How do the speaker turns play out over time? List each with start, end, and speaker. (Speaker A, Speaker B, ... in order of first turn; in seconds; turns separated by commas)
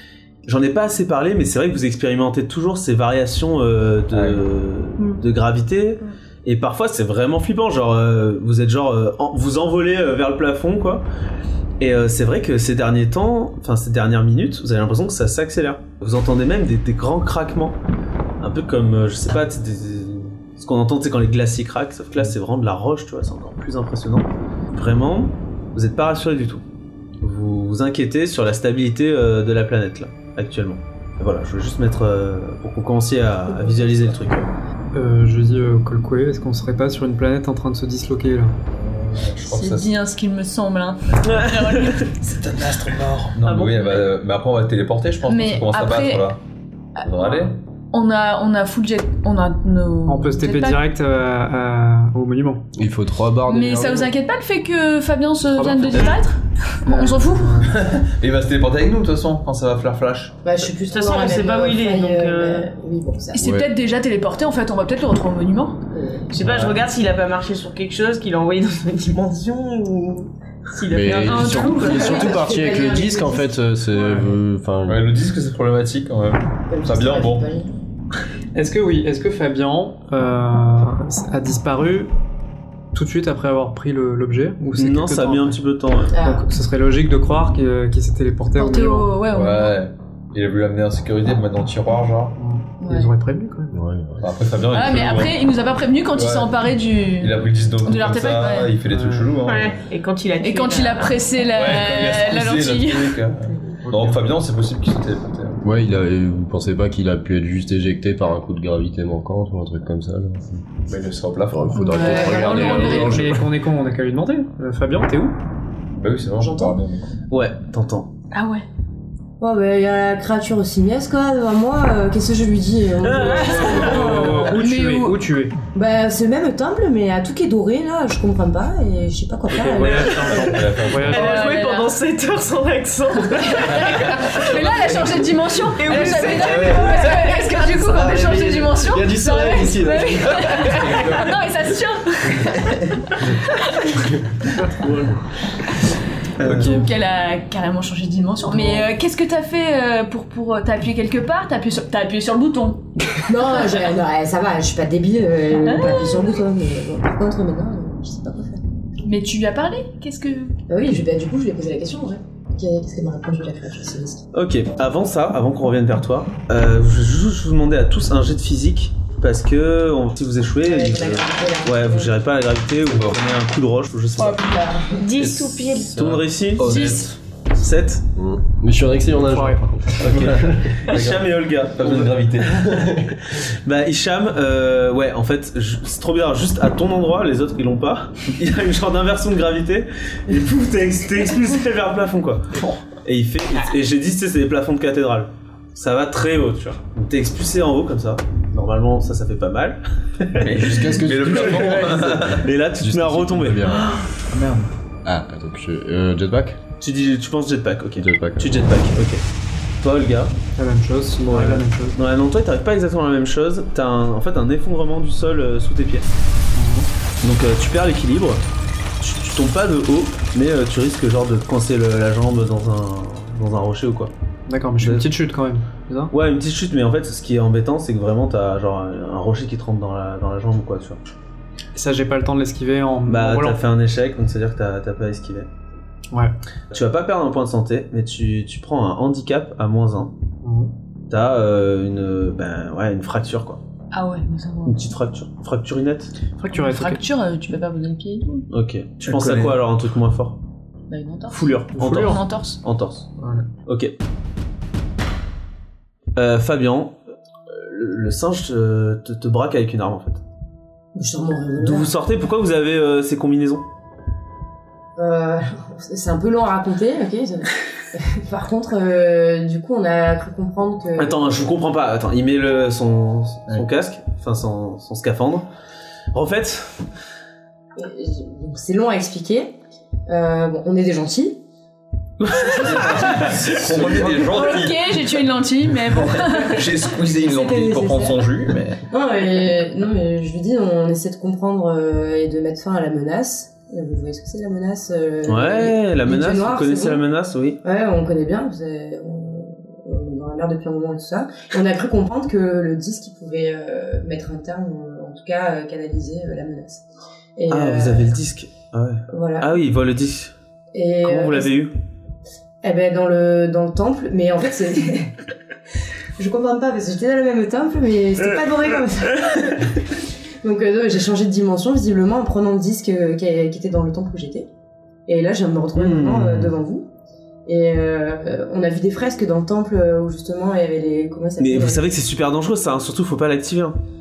Speaker A: 0.4-11.1, Speaker B: 4.1-4.4, Speaker A: 11.8-17.8, Speaker A: 18.4-26.6, Speaker A: 27.2-34.5, Speaker C: 34.9-38.5, Speaker B: 38.7-39.9, Speaker D: 39.4-42.0, Speaker A: 41.2-42.1, Speaker B: 42.2-46.4, Speaker E: 43.4-44.1, Speaker D: 45.3-46.3, Speaker B: 47.0-47.6, Speaker D: 47.9-50.8, Speaker C: 50.1-52.6, Speaker F: 52.8-54.1, Speaker D: 53.5-57.6, Speaker C: 55.5-56.2, Speaker C: 56.9-57.8, Speaker B: 57.6-60.4, Speaker G: 60.4-63.5, Speaker E: 60.9-62.7, Speaker D: 63.3-65.8, Speaker F: 63.4-63.7, Speaker G: 65.9-66.3, Speaker E: 66.3-72.1, Speaker B: 66.4-66.7, Speaker F: 70.9-75.0, Speaker D: 71.2-72.3, Speaker G: 71.7-73.5, Speaker C: 73.9-74.3, Speaker B: 74.9-77.5, Speaker G: 76.7-77.7, Speaker C: 78.5-82.1, Speaker C: 82.9-85.6, Speaker A: 84.7-86.1, Speaker G: 86.1-86.5, Speaker C: 86.2-89.1, Speaker D: 88.5-89.8, Speaker B: 89.3-92.4, Speaker C: 92.4-93.8, Speaker F: 93.7-94.3, Speaker B: 94.2-95.4, Speaker D: 94.7-98.7, Speaker B: 96.1-96.5, Speaker B: 97.2-99.8, Speaker C: 98.9-99.3, Speaker E: 99.4-101.2, Speaker D: 100.4-103.2, Speaker B: 101.5-105.6, Speaker C: 103.8-104.2, Speaker F: 105.6-110.7, Speaker B: 110.9-112.0, Speaker F: 111.5-113.5, Speaker D: 111.9-113.3, Speaker G: 111.9-112.8, Speaker C: 112.6-115.4, Speaker B: 115.9-117.2, Speaker G: 116.4-116.8, Speaker A: 117.3-118.1, Speaker D: 118.3-118.7, Speaker G: 119.4-124.6, Speaker A: 123.0-123.5, Speaker D: 123.3-125.2, Speaker C: 123.5-125.5, Speaker G: 125.7-130.5, Speaker C: 129.5-131.4, Speaker B: 130.3-131.3, Speaker E: 131.0-134.9, Speaker D: 131.1-131.9, Speaker D: 133.3-144.0, Speaker E: 135.7-137.8, Speaker B: 136.4-137.0, Speaker F: 137.8-141.1, Speaker B: 140.4-141.3, Speaker A: 144.8-145.2, Speaker B: 146.4-146.9, Speaker D: 146.4-152.8, Speaker G: 153.2-158.6, Speaker D: 155.6-156.3, Speaker D: 159.0-160.6, Speaker G: 160.7-164.2, Speaker A: 164.3-174.4, Speaker G: 170.6-172.1, Speaker B: 172.9-173.2, Speaker G: 174.2-175.1, Speaker E: 175.0-176.0, Speaker B: 175.2-177.1, Speaker A: 175.9-178.0, Speaker D: 176.6-177.1, Speaker F: 178.2-180.7, Speaker C: 179.2-179.6, Speaker A: 180.0-182.3, Speaker B: 180.0-183.2, Speaker A: 183.3-204.0, Speaker B: 200.4-202.4, Speaker F: 200.5-203.9, Speaker B: 204.3-204.7, Speaker F: 205.0-206.6, Speaker A: 206.8-209.2, Speaker F: 208.0-208.6, Speaker A: 209.8-210.3, Speaker C: 210.6-212.0, Speaker A: 211.2-216.1, Speaker C: 216.5-216.9, Speaker A: 217.2-218.4, Speaker A: 219.0-224.1, Speaker C: 224.5-226.1, Speaker A: 224.8-225.1, Speaker A: 226.1-231.0, Speaker C: 231.7-233.6, Speaker A: 233.1-235.5, Speaker A: 236.7-240.1, Speaker C: 240.4-240.7, Speaker A: 241.1-243.6, Speaker D: 243.9-244.9, Speaker A: 244.6-246.1, Speaker C: 246.4-247.0, Speaker D: 246.5-248.5, Speaker A: 248.5-250.4, Speaker B: 249.0-249.6, Speaker D: 250.9-252.6, Speaker A: 251.3-253.1, Speaker C: 251.7-252.2, Speaker C: 253.2-253.5, Speaker A: 253.7-253.9, Speaker A: 256.1-257.0, Speaker A: 257.5-260.2, Speaker G: 260.9-261.9, Speaker A: 261.6-263.6, Speaker G: 264.9-271.5, Speaker A: 271.0-275.5, Speaker A: 276.1-276.9, Speaker G: 277.8-281.4, Speaker A: 282.2-284.2, Speaker B: 282.5-285.1, Speaker D: 284.1-286.6, Speaker B: 285.8-288.8, Speaker G: 287.1-288.4, Speaker G: 288.9-297.0, Speaker A: 295.2-297.6, Speaker G: 297.6-306.8, Speaker G: 307.4-308.2, Speaker A: 307.5-310.3, Speaker G: 309.1-309.5, Speaker G: 310.7-311.6, Speaker A: 311.0-311.7, Speaker G: 312.6-315.1, Speaker G: 316.2-319.8, Speaker G: 320.4-324.5, Speaker G: 325.1-326.9, Speaker A: 325.7-326.5, Speaker G: 327.4-331.9, Speaker A: 331.4-333.8